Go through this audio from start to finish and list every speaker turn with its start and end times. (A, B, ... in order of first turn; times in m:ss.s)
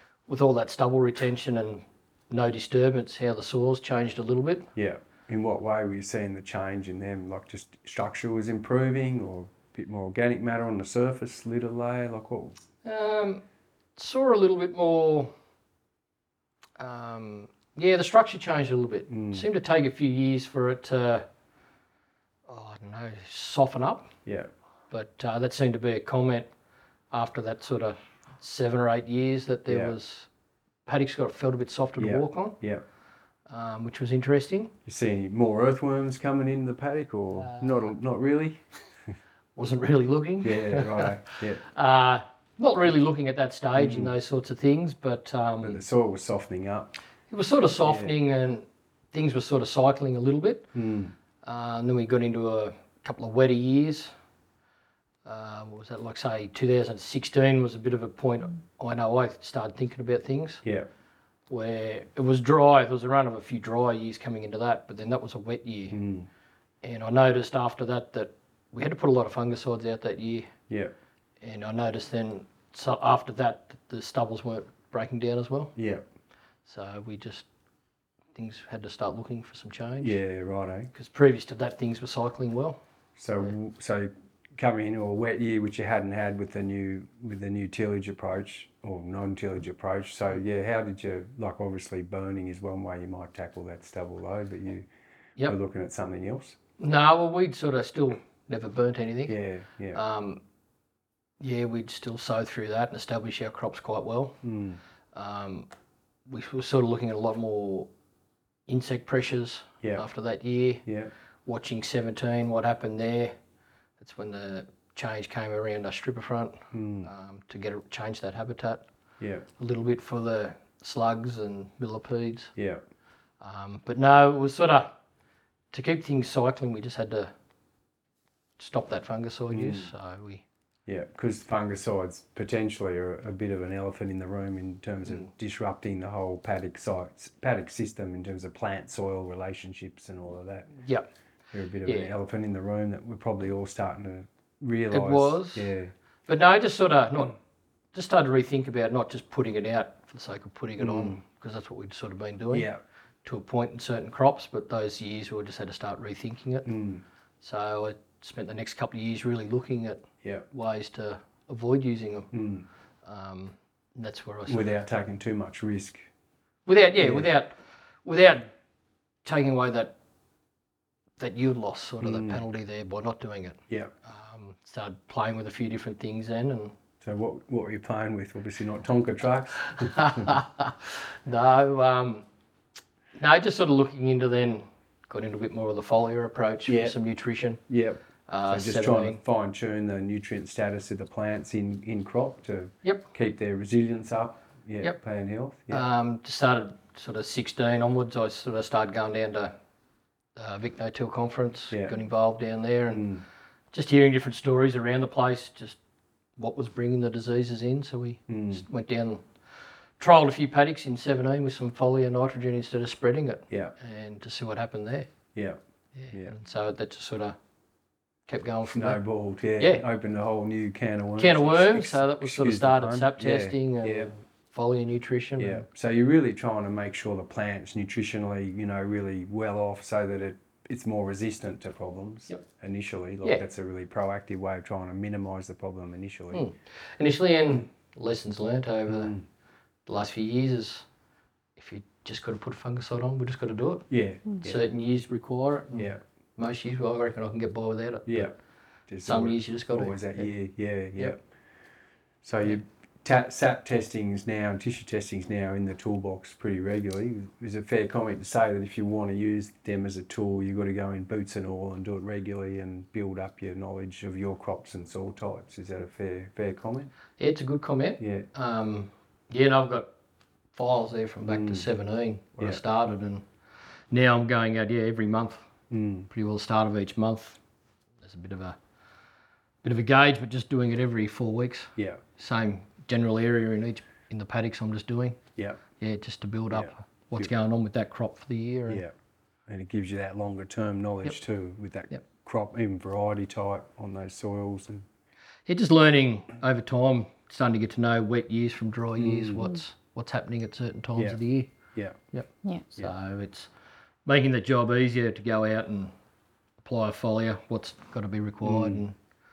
0:00.3-0:04.7 A
0:04.8-0:12.6 B
0:12.8-0:13.4 A
0:14.0-0:15.3 A
0:16.8-0:21.3 A
0:19.1-0:19.4 B
0:22.5-0:24.1 A
0:24.3-0:24.5 B
0:24.9-0:26.5 A
0:27.1-0:30.3 A
0:29.7-0:30.0 B
0:30.9-0:32.6 A
0:32.0-0:32.8 B
0:33.5-0:34.7 A
0:34.9-0:38.7 B
0:37.4-0:37.9 A
0:39.6-0:45.8 A
0:40.4-0:41.6 B
0:43.8-0:44.1 B
0:45.6-0:47.0 B
0:47.3-0:50.7 A
0:47.8-0:48.1 B
0:50.7-0:51.2 B
0:51.4-0:54.1 A
0:55.2-1:00.6 A
1:01.5-1:06.0 A
1:05.9-1:06.3 B
1:06.8-1:10.5 A
1:11.4-1:15.8 A
1:15.8-1:16.0 B
1:16.7-1:17.5 A
1:18.4-1:20.2 A
1:20.0-1:20.9 B
1:20.9-1:22.8 A
1:23.2-1:34.9 B
1:35.5-1:36.6 B
1:36.8-1:39.4 A
1:39.3-1:40.0 B
1:39.9-1:40.4 A
1:41.4-1:44.4 A
1:44.4-1:44.8 B
1:45.1-1:45.7 A
1:46.3-1:47.9 A
1:48.7-1:50.8 A
1:50.9-1:51.1 B
1:51.4-1:53.3 A
1:54.0-1:58.9 A
1:56.7-1:57.1 B
1:59.2-1:59.4 B
1:59.6-2:02.5 A
2:02.6-2:02.8 B
2:03.4-2:05.0 A
2:05.7-2:07.3 A
2:08.6-2:10.4 A
2:09.5-2:09.9 B
2:10.9-2:20.8 B
2:20.8-2:21.1 A
2:21.5-2:25.9 B
2:21.8-2:22.1 A
2:24.9-2:25.7 A
2:26.3-2:27.4 A
2:27.9-2:32.7 A
2:30.8-2:31.2 B
2:32.5-2:32.8 B
2:33.2-2:36.8 A
2:36.6-2:37.0 B
2:37.4-2:42.3 A
2:42.3-2:42.6 B
2:43.0-2:44.7 A
2:44.5-2:46.0 B
2:46.7-2:48.5 A
2:47.0-2:47.3 B
2:49.2-2:49.9 A
2:51.2-2:56.8 A
2:52.0-2:52.4 B
2:57.0-3:00.4 B
2:59.8-3:02.3 A
3:03.2-3:07.6 A
3:06.7-3:07.0 B
3:07.7-3:15.8 B
3:08.3-3:09.2 A
3:15.7-3:19.6 A
3:20.4-3:23.1 A
3:22.9-3:23.2 B
3:23.7-3:25.8 A
3:26.4-3:29.2 A
3:28.3-3:28.6 B
3:30.0-3:35.1 A
3:36.0-3:37.4 A
3:38.3-3:39.0 A
3:38.7-3:44.1 B
3:39.6-3:39.8 A
3:41.2-3:45.7 A
3:45.4-3:56.4 B
3:56.3-3:59.2 A
3:58.9-3:59.2 B
3:59.9-4:00.9 A
4:01.6-4:03.9 A
4:03.9-4:04.7 B
4:04.4-4:08.3 A
4:05.7-4:06.0 B
4:08.1-4:08.4 B
4:08.9-4:11.2 B
4:09.0-4:10.3 A
4:12.2-4:26.9 B
4:27.2-4:29.9 A
4:28.0-4:28.3 B
4:30.5-4:33.3 A
4:31.3-4:31.6 B
4:33.9-4:35.5 A
4:35.7-4:36.1 B
4:36.1-4:37.4 A
4:38.0-4:38.6 A
4:39.6-4:45.2 A
4:41.8-4:42.0 B
4:45.8-4:48.8 A
4:46.5-4:47.3 B
4:49.5-4:54.9 B
4:55.5-5:01.5 A
4:59.0-4:59.6 B
5:01.7-5:02.0 B
5:02.1-5:03.5 A
5:04.0-5:05.9 A
5:06.6-5:09.0 A
5:08.4-5:08.8 B